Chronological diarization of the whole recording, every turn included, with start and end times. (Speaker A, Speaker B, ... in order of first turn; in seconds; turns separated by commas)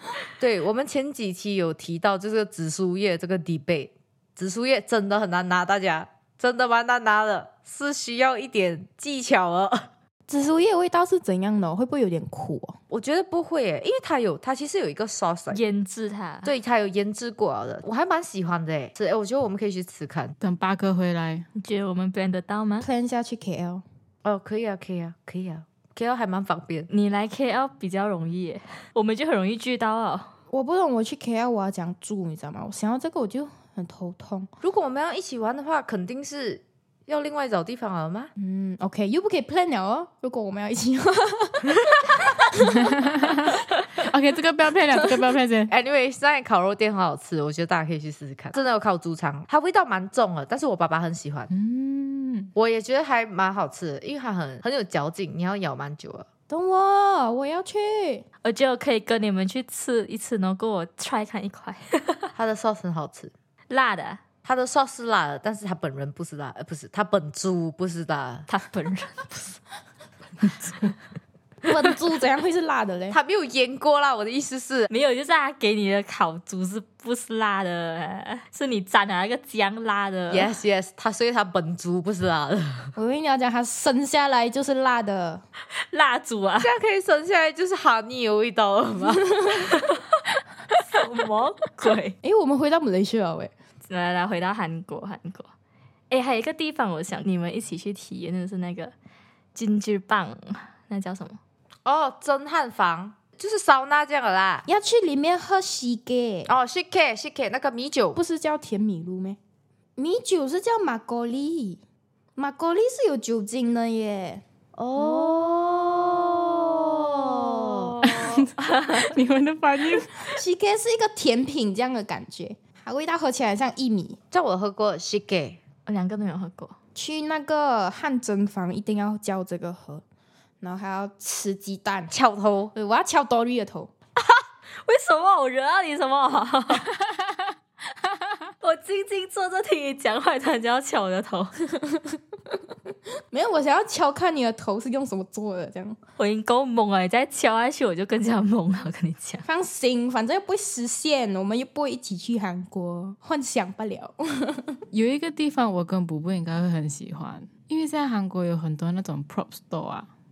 Speaker A: 0.4-9.9, Speaker B: 10.3-12.8, Speaker A: 12.9-15.6, Speaker C: 15.5-16.5, Speaker A: 16.4-20.4, Speaker D: 20.4-21.5, Speaker C: 21.6-22.9, Speaker B: 22.8-23.8, Speaker A: 24.2-26.9, Speaker C: 26.9-30.3, Speaker B: 30.5-34.5, Speaker A: 34.6-38.3, Speaker B: 38.4-42.9, Speaker D: 42.7-45.7, Speaker A: 45.7-51.5, Speaker D: 51.5-52.5, Speaker A: 52.5-56.3, Speaker B: 56.5-58.2, Speaker C: 58.4-62.3, Speaker A: 62.4-63.3, Speaker C: 63.7-64.2, Speaker A: 64.4-68.5, Speaker C: 68.5-69.3, Speaker D: 70.4-70.9, Speaker B: 71.6-73.2, Speaker A: 73.1-74.9, Speaker C: 74.9-80.5, Speaker A: 80.3-82.9, Speaker B: 83.0-85.4, Speaker C: 85.9-86.7, Speaker A: 86.6-89.7, Speaker B: 89.4-89.7, Speaker C: 89.7-90.0, Speaker C: 90.9-92.2, Speaker B: 92.2-93.5, Speaker C: 93.9-95.5, Speaker C: 96.1-98.9, Speaker C: 99.5-101.4, Speaker A: 101.9-104.7, Speaker B: 104.7-106.5, Speaker A: 106.5-108.2, Speaker B: 108.2-109.4, Speaker B: 110.0-111.8, Speaker B: 112.4-114.4, Speaker A: 114.8-118.5, Speaker B: 115.0-117.9, Speaker D: 118.0-120.4, Speaker C: 118.6-119.1, Speaker B: 120.2-124.2, Speaker A: 124.3-125.6, Speaker C: 125.9-126.8, Speaker B: 127.0-130.0, Speaker B: 130.6-132.1, Speaker A: 132.1-132.7, Speaker B: 132.7-133.9, Speaker C: 134.8-137.0, Speaker C: 138.6-141.5, Speaker B: 143.3-146.0, Speaker C: 146.2-149.5, Speaker B: 149.5-154.8, Speaker D: 154.9-160.1